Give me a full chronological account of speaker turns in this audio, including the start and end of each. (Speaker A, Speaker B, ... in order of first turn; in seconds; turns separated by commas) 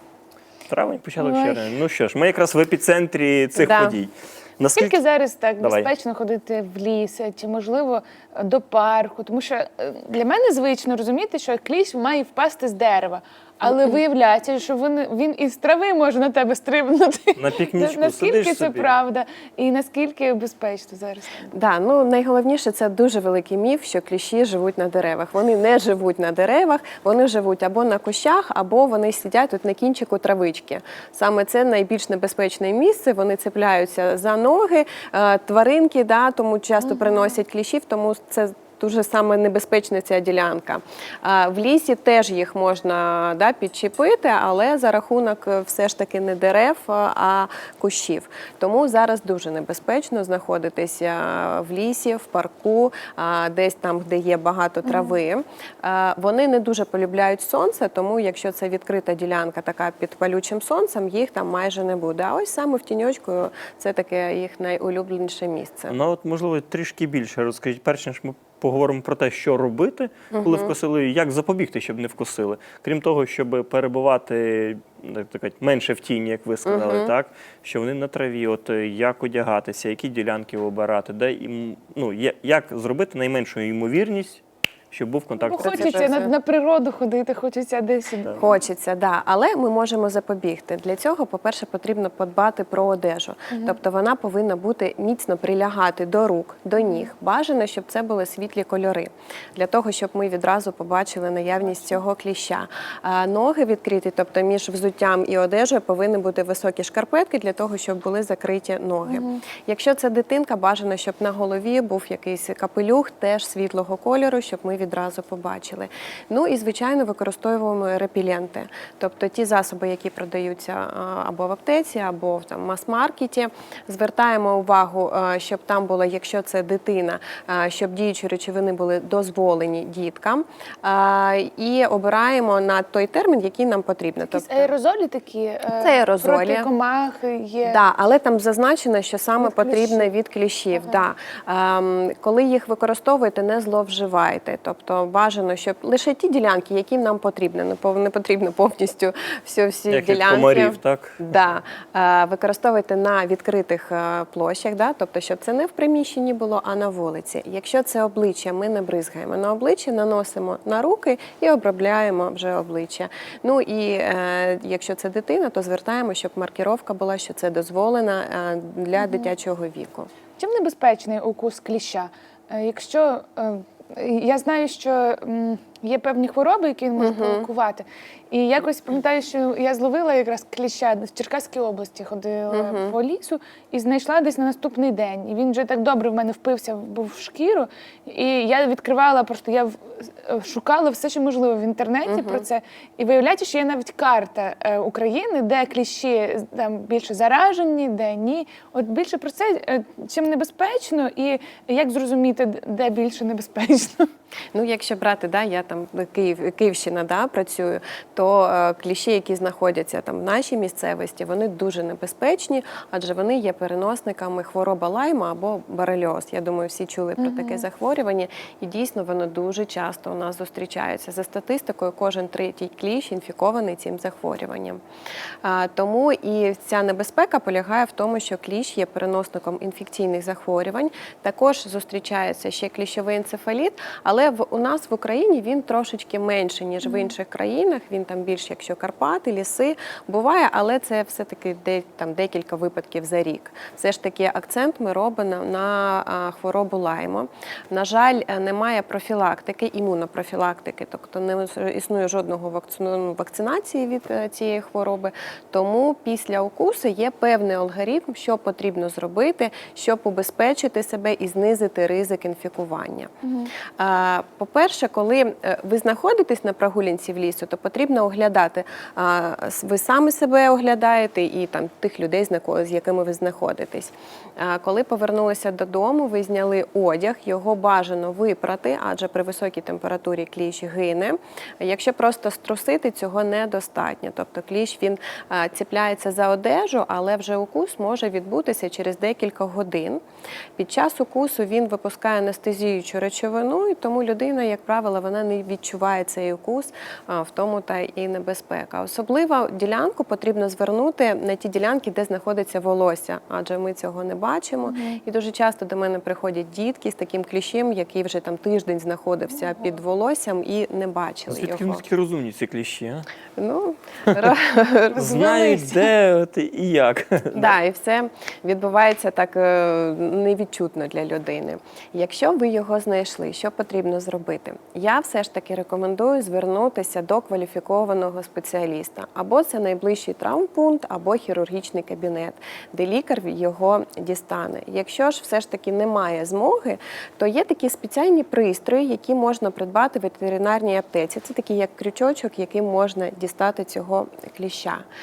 Speaker A: 0.7-5.0, Speaker B: 1.2-1.7, Speaker C: 3.5-4.0, Speaker B: 4.8-21.5, Speaker A: 5.6-5.9, Speaker C: 13.6-14.0, Speaker A: 17.4-18.9, Speaker C: 21.5-66.0, Speaker B: 36.8-37.3, Speaker B: 54.8-55.2, Speaker A: 65.9-86.1, Speaker C: 70.3-70.8, Speaker C: 76.7-77.1, Speaker B: 85.4-88.5, Speaker C: 85.6-86.3, Speaker C: 88.4-134.7, Speaker B: 93.5-93.8, Speaker B: 96.8-97.0, Speaker B: 101.6-102.0, Speaker B: 109.1-109.4, Speaker B: 134.3-137.8, Speaker C: 135.8-136.7, Speaker C: 137.6-170.1, Speaker B: 139.4-140.1, Speaker B: 140.7-141.1, Speaker A: 149.9-151.2, Speaker B: 169.0-169.3, Speaker B: 170.4-204.1, Speaker C: 177.0-177.5, Speaker C: 182.5-182.9, Speaker C: 192.1-192.4, Speaker C: 204.5-224.8, Speaker B: 217.2-217.7, Speaker C: 225.4-263.1, Speaker B: 236.8-237.1, Speaker B: 263.2-263.5, Speaker C: 263.8-290.0, Speaker C: 290.6-311.8, Speaker B: 304.7-305.0, Speaker B: 309.3-309.7, Speaker A: 311.3-313.1, Speaker C: 313.4-315.9, Speaker A: 315.0-317.6, Speaker C: 317.3-344.9